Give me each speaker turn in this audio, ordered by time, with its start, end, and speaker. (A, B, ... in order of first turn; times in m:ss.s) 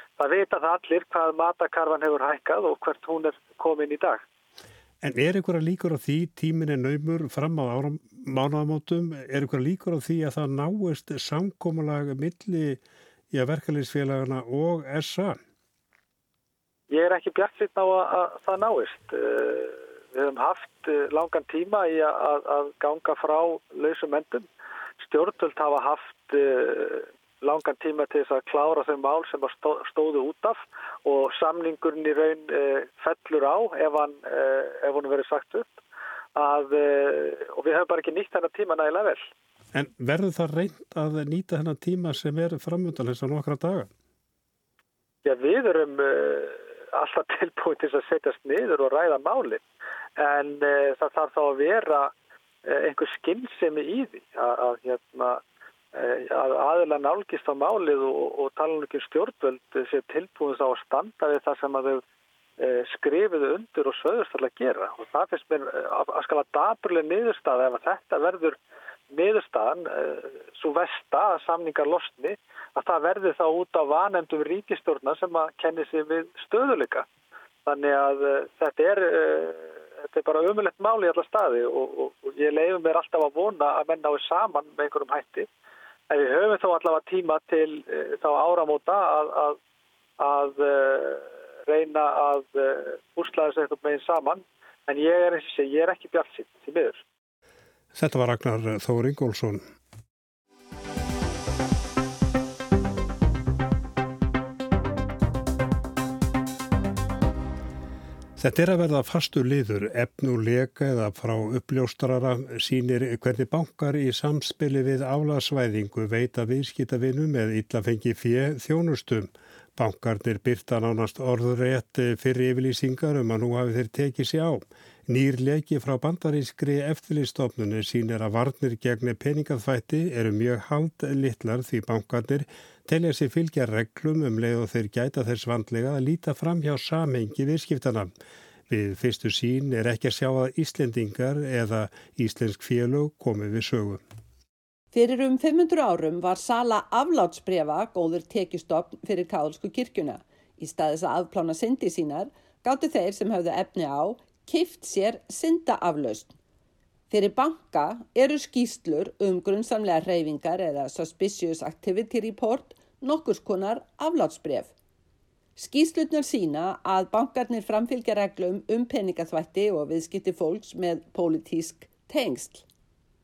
0:00.2-0:04.2 A
0:05.0-0:15.4 B
0:16.9-0:24.5 A
0:25.0-0:35.7 A
0:36.4-0:39.3 A
0:39.7-0:43.9 B
0:45.2-0:49.6 A
0:50.2-0:52.1 A
0:52.7-0:55.4 A
0:56.0-1:02.0 A
1:02.6-1:08.6 A
1:09.1-1:17.1 A
1:17.7-1:25.5 A
1:26.1-1:29.6 A
1:30.2-1:37.0 A
1:37.9-1:39.6 B
1:48.4-2:18.1 B
2:18.7-2:24.0 B
2:24.9-2:36.4 C
2:37.1-2:44.7 C
2:45.6-2:52.6 C